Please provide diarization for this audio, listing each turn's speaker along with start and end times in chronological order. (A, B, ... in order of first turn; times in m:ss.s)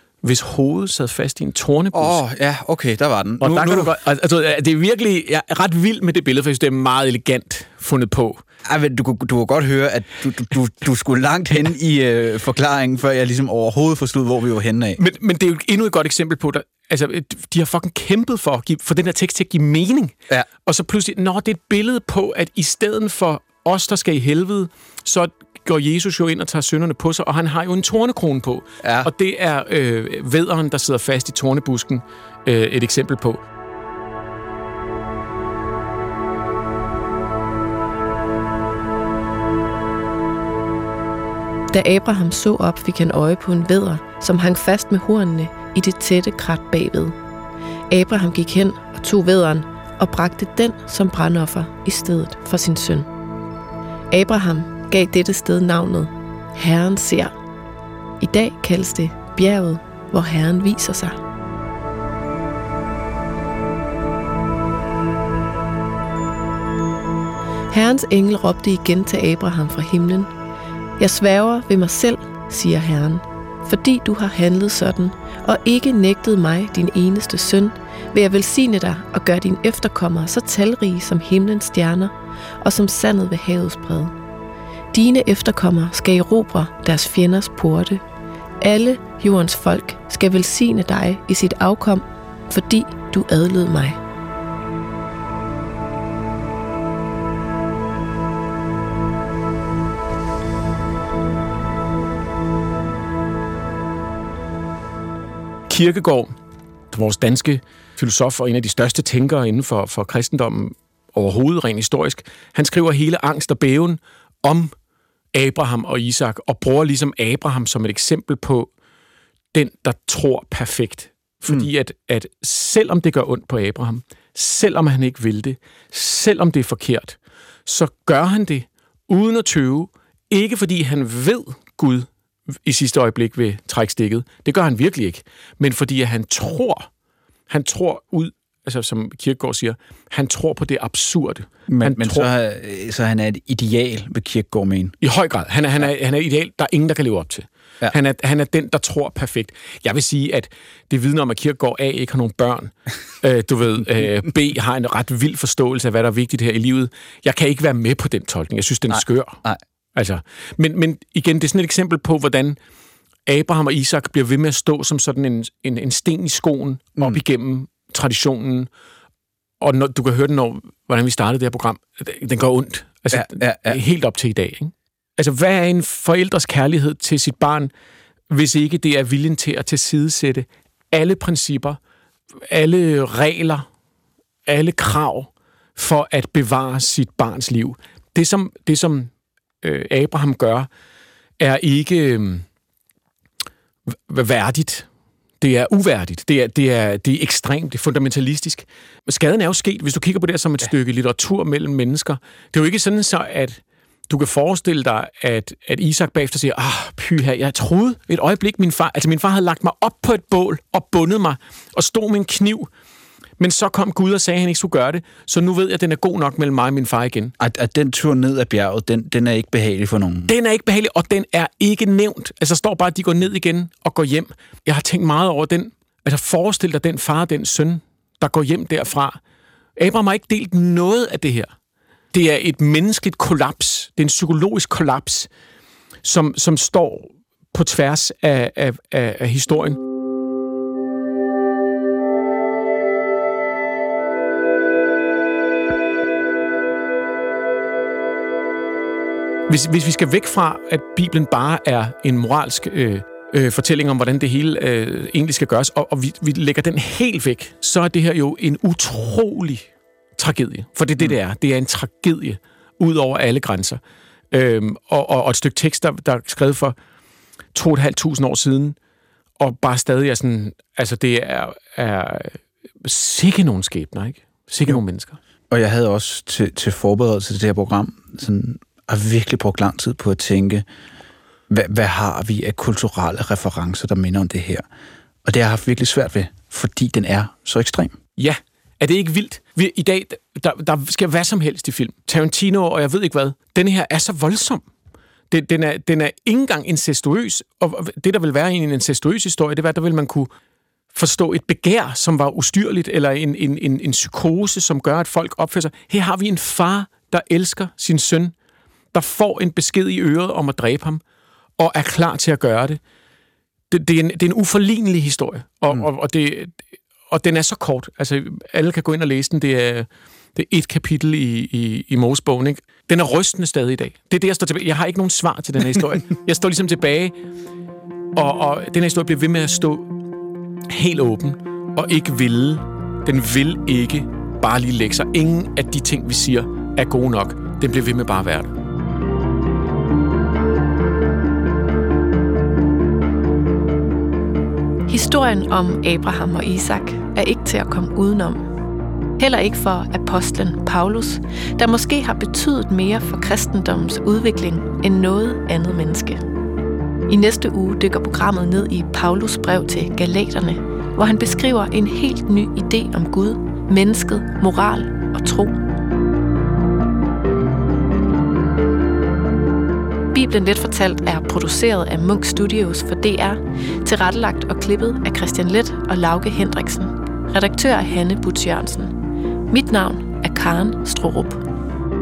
0:00.2-0:02.2 A
0:01.9-0:04.0 B
0:03.4-0:08.4 A
0:08.7-0:15.0 B
0:15.0-0:20.1 A
0:20.6-0:33.4 A
0:28.8-0:29.1 B
0:41.7-0:47.2 C
0:47.9-0:53.1 C
0:54.1-0:57.3 C
0:58.2-1:01.2 C
1:07.7-1:10.3 C
1:11.0-1:24.1 C
1:24.9-1:28.0 C
1:28.6-1:34.0 C
1:45.7-1:46.3 A
1:46.9-1:54.7 A
1:55.3-1:58.7 A
1:59.5-2:12.1 A
2:12.6-2:16.9 A
2:17.5-2:22.3 A
2:21.7-2:24.9 B
2:25.0-2:39.4 A
2:38.9-2:39.6 B
2:39.9-2:42.6 A
2:43.2-2:48.7 A
2:49.6-2:57.7 A
2:53.1-2:53.8 B
2:58.3-3:01.8 A
3:02.4-3:03.6 A
3:04.4-3:09.1 A
3:09.6-3:10.7 A
3:11.4-3:12.4 A
3:13.9-3:14.8 A
3:15.4-3:32.7 A
3:33.4-3:37.3 A
3:37.4-3:40.3 B
3:40.3-3:49.2 A
3:49.8-3:51.5 A
3:52.1-3:55.3 A
3:56.0-3:59.8 A
4:09.5-4:23.8 A
4:24.3-4:26.7 A
4:27.5-4:28.8 A
4:29.4-4:35.2 A
4:35.5-4:40.6 B
4:41.5-4:44.6 B
4:45.2-4:48.0 B
4:48.2-4:54.6 A
4:55.3-5:00.3 A
5:00.9-5:08.3 A
5:08.9-5:11.0 A
5:11.6-5:12.8 A
5:13.7-5:16.6 A
5:17.1-5:27.1 A
5:28.1-5:29.9 A
5:30.7-5:38.5 A
5:44.9-5:48.5 C
5:49.2-5:56.2 C
5:57.1-6:05.6 C
6:10.1-6:18.9 C
6:19.5-6:21.4 C